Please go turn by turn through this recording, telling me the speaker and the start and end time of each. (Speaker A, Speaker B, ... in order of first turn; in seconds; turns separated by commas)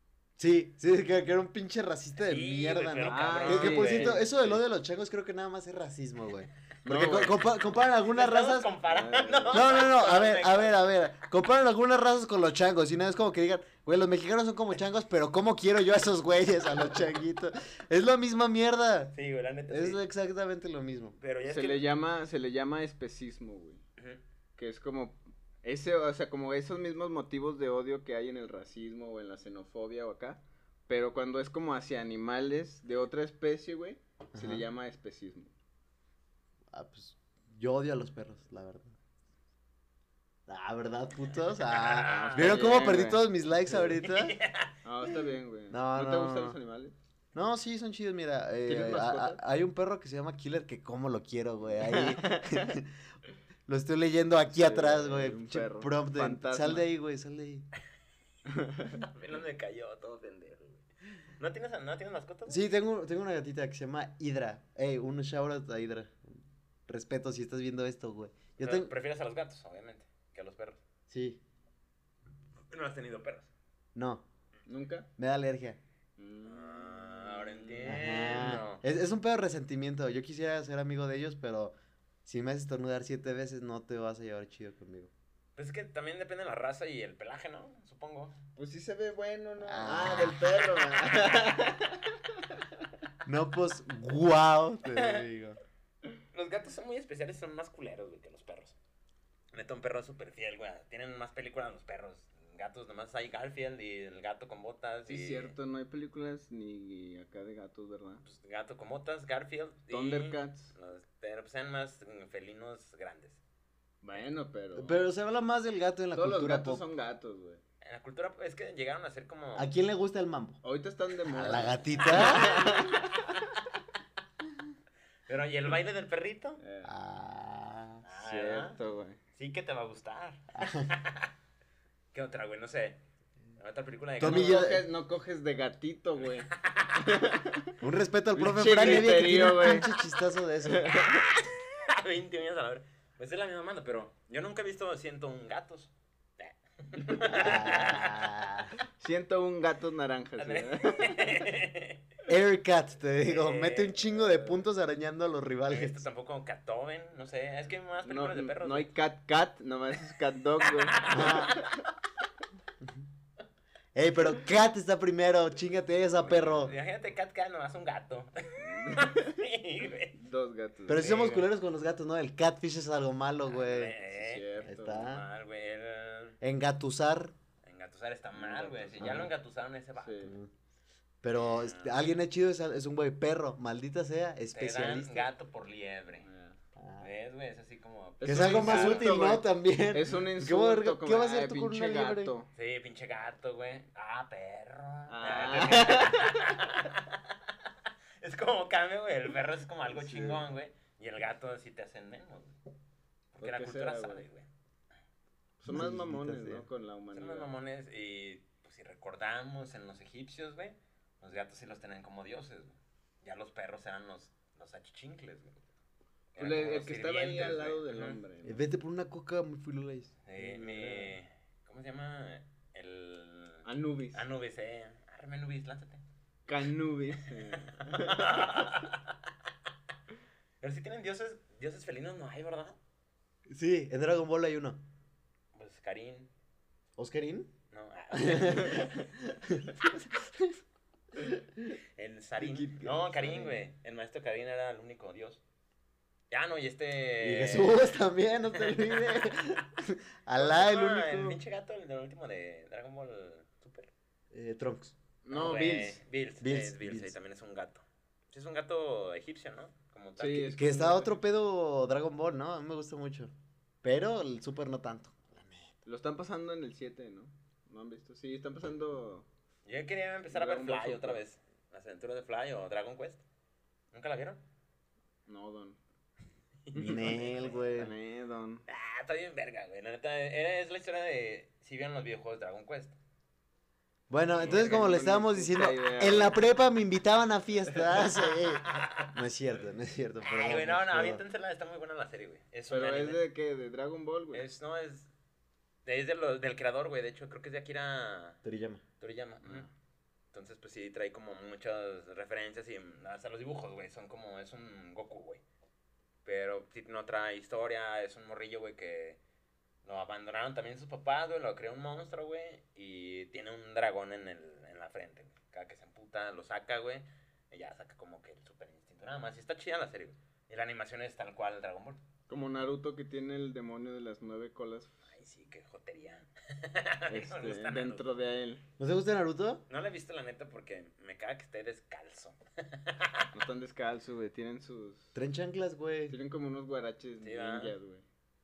Speaker A: 0.4-8.7, Speaker B: 2.2-4.3, Speaker C: 3.0-4.3, Speaker C: 6.8-7.4, Speaker B: 8.1-10.9, Speaker C: 8.8-9.7, Speaker A: 9.5-19.1, Speaker B: 19.1-20.0, Speaker A: 19.7-21.1, Speaker B: 21.2-21.9, Speaker C: 21.5-23.8, Speaker C: 24.6-35.5, Speaker A: 34.3-34.6, Speaker A: 36.7-38.9, Speaker A: 40.5-44.4, Speaker B: 41.6-42.8, Speaker C: 42.0-43.2, Speaker B: 44.0-44.8, Speaker C: 44.8-46.9, Speaker A: 45.7-46.6, Speaker A: 47.3-52.9, Speaker C: 48.6-49.4, Speaker C: 51.8-52.7, Speaker A: 53.7-57.7, Speaker C: 54.5-56.9, Speaker C: 58.5-59.0, Speaker B: 58.9-60.8, Speaker B: 61.4-62.6, Speaker A: 62.5-68.9, Speaker B: 68.6-70.8, Speaker A: 71.1-71.4, Speaker B: 72.7-73.5, Speaker A: 73.9-74.2, Speaker C: 74.7-75.1, Speaker A: 75.2-75.8, Speaker C: 76.2-78.1, Speaker B: 76.5-78.8, Speaker A: 77.8-81.7, Speaker A: 82.2-85.1, Speaker B: 85.6-88.4, Speaker C: 88.5-92.6, Speaker A: 89.7-90.5, Speaker B: 91.0-91.5, Speaker A: 93.2-95.6, Speaker B: 94.9-95.2, Speaker B: 96.3-98.8, Speaker B: 99.5-105.5, Speaker C: 105.1-108.2, Speaker B: 108.2-113.4, Speaker C: 109.9-110.7, Speaker C: 114.0-115.0, Speaker A: 114.7-116.8, Speaker C: 116.1-117.6, Speaker B: 117.8-119.7, Speaker A: 119.5-120.6, Speaker C: 120.6-123.3, Speaker A: 121.3-122.6, Speaker B: 122.1-123.3, Speaker B: 125.3-126.6, Speaker C: 126.6-126.9, Speaker A: 126.8-128.0, Speaker B: 128.0-128.8, Speaker C: 128.2-129.2, Speaker B: 129.3-131.3, Speaker A: 130.6-130.9, Speaker B: 132.1-133.0, Speaker B: 133.6-134.7, Speaker A: 134.2-134.8, Speaker C: 134.2-137.7, Speaker B: 136.5-137.0, Speaker A: 137.8-140.9, Speaker C: 138.3-139.9, Speaker C: 140.6-141.2, Speaker B: 140.9-148.3, Speaker C: 147.0-147.3, Speaker A: 147.3-148.7, Speaker C: 149.0-151.5, Speaker B: 150.4-152.0, Speaker A: 152.3-156.0, Speaker B: 153.2-154.1, Speaker B: 155.7-158.9, Speaker C: 158.0-161.7, Speaker B: 160.7-161.7, Speaker A: 161.1-161.6, Speaker A: 163.9-166.7, Speaker B: 166.2-170.2, Speaker C: 168.6-169.4, Speaker C: 170.1-171.1, Speaker A: 170.9-173.9, Speaker B: 170.9-171.5, Speaker B: 173.5-176.4, Speaker C: 174.1-175.1, Speaker A: 174.6-175.2, Speaker A: 176.4-177.3, Speaker B: 177.6-180.3, Speaker C: 178.3-179.3, Speaker A: 179.0-179.3, Speaker C: 180.0-180.3, Speaker A: 180.2-180.5, Speaker A: 181.2-185.3, Speaker B: 181.3-182.1, Speaker B: 184.5-186.3, Speaker C: 186.2-186.6, Speaker A: 186.8-187.1, Speaker B: 187.0-189.2, Speaker C: 188.2-192.5, Speaker A: 188.2-192.3, Speaker B: 192.5-197.3, Speaker C: 195.1-196.4, Speaker B: 198.2-202.6, Speaker C: 199.9-200.4, Speaker B: 203.3-204.5, Speaker C: 203.4-204.2, Speaker C: 205.6-207.5, Speaker A: 205.7-206.7, Speaker B: 207.1-215.6, Speaker B: 216.3-218.2, Speaker C: 216.4-218.6, Speaker A: 218.4-220.2, Speaker B: 220.2-226.0, Speaker C: 220.4-221.1, Speaker C: 223.6-224.2, Speaker C: 226.5-228.7, Speaker B: 227.8-229.1, Speaker B: 230.6-232.8, Speaker A: 233.5-234.8, Speaker B: 235.5-236.3, Speaker A: 237.0-237.5, Speaker B: 237.7-239.1, Speaker A: 238.1-240.6, Speaker A: 241.1-241.8, Speaker B: 241.9-245.4, Speaker A: 242.4-243.6, Speaker B: 246.3-247.9, Speaker A: 247.2-251.4, Speaker B: 248.6-249.3, Speaker B: 250.4-253.9, Speaker A: 254.3-254.9, Speaker C: 255.2-256.0, Speaker B: 255.3-260.6, Speaker A: 256.4-257.1, Speaker C: 260.2-261.2, Speaker A: 260.5-263.3, Speaker A: 263.8-265.7, Speaker C: 265.8-269.2, Speaker B: 269.6-273.2, Speaker C: 270.3-271.2, Speaker B: 273.9-274.4, Speaker C: 275.3-275.8, Speaker B: 276.6-277.7, Speaker A: 276.7-277.9, Speaker C: 276.8-278.6, Speaker B: 278.7-282.9, Speaker A: 284.1-291.2, Speaker B: 284.4-284.9, Speaker C: 284.4-286.4, Speaker B: 288.6-289.1, Speaker B: 290.2-293.2, Speaker C: 292.7-294.4, Speaker B: 294.3-295.1, Speaker B: 295.8-298.4, Speaker A: 298.4-298.8, Speaker B: 299.0-299.7, Speaker B: 300.3-305.4, Speaker B: 306.2-309.2, Speaker B: 309.8-322.0, Speaker C: 322.3-325.0, Speaker B: 325.1-328.0, Speaker C: 327.1-328.6, Speaker A: 328.8-329.6, Speaker B: 329.7-333.3, Speaker C: 333.3-335.1, Speaker A: 335.1-336.1, Speaker C: 336.1-338.0, Speaker B: 337.2-337.7